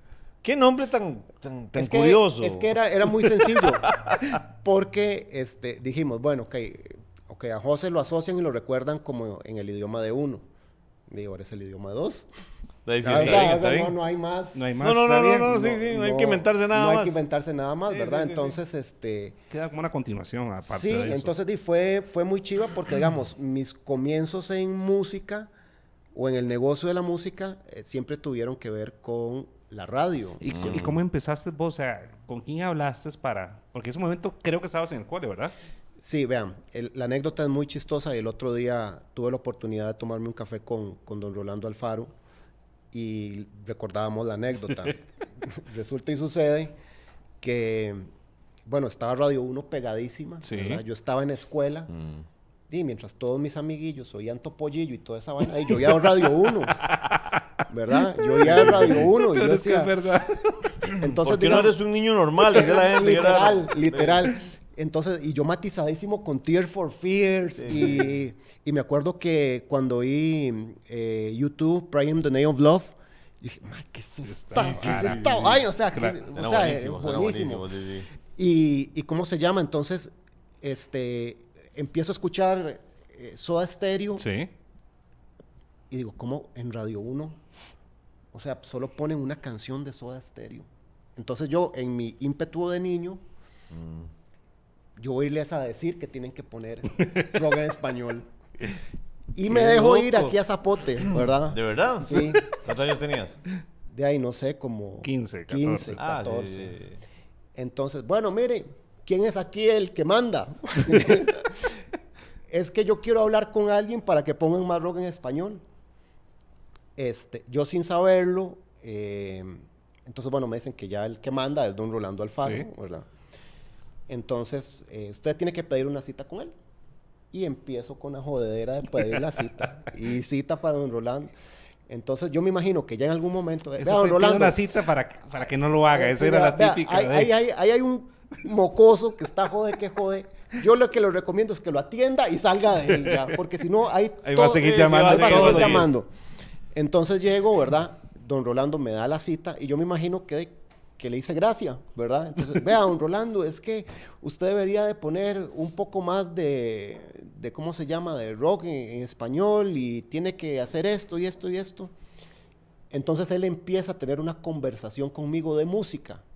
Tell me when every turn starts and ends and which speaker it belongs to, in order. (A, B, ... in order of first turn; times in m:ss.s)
0:00.4-0:02.8 A
0:01.8-0:10.4 B
0:11.1-0:12.3 B
0:12.9-0:14.0 A
0:13.0-0:14.7 B
0:14.6-0:15.6 C
0:14.8-0:17.2 A
0:15.4-0:19.4 B
0:17.9-0:18.6 A
0:19.5-0:21.3 C
0:20.6-0:25.5 B
0:26.2-0:30.8 B
0:30.4-0:35.6 C
0:30.5-0:31.0 A
0:36.0-0:42.1 B
0:42.9-0:46.7 B
0:47.4-0:48.1 B
0:48.7-0:51.9 B
0:50.4-0:50.8 C
0:51.9-0:52.3 A
0:52.7-0:56.8 B
0:56.8-0:57.4 C
0:57.7-1:00.0 B
0:58.0-1:00.8 C
0:58.4-0:59.1 A
1:00.9-1:04.3 A
1:01.0-1:01.8 B
1:02.5-1:17.7 B
1:07.6-1:08.2 A
1:14.3-1:15.2 C
1:14.5-1:15.7 A
1:15.9-1:16.2 C
1:16.3-1:18.1 A
1:18.4-1:24.2 B
1:24.2-1:24.5 C
1:25.9-1:27.4 B
1:28.3-1:33.2 B
1:33.7-1:34.1 A
1:35.0-1:38.3 B
1:39.4-1:42.5 B
1:39.5-1:40.3 C
1:41.5-1:43.4 A
1:43.9-1:46.8 B
1:45.0-1:46.1 C
1:46.0-1:47.0 A
1:47.6-1:51.8 B
1:52.5-1:55.6 B
1:57.0-2:03.1 B
2:02.4-2:02.7 C
2:04.1-2:06.5 B
2:07.3-2:11.3 B
2:11.9-2:14.6 B
2:13.8-2:17.3 C
2:15.9-2:26.1 B
2:24.2-2:25.9 C
2:24.3-2:25.9 A
2:26.7-2:41.9 B
2:42.9-2:46.2 B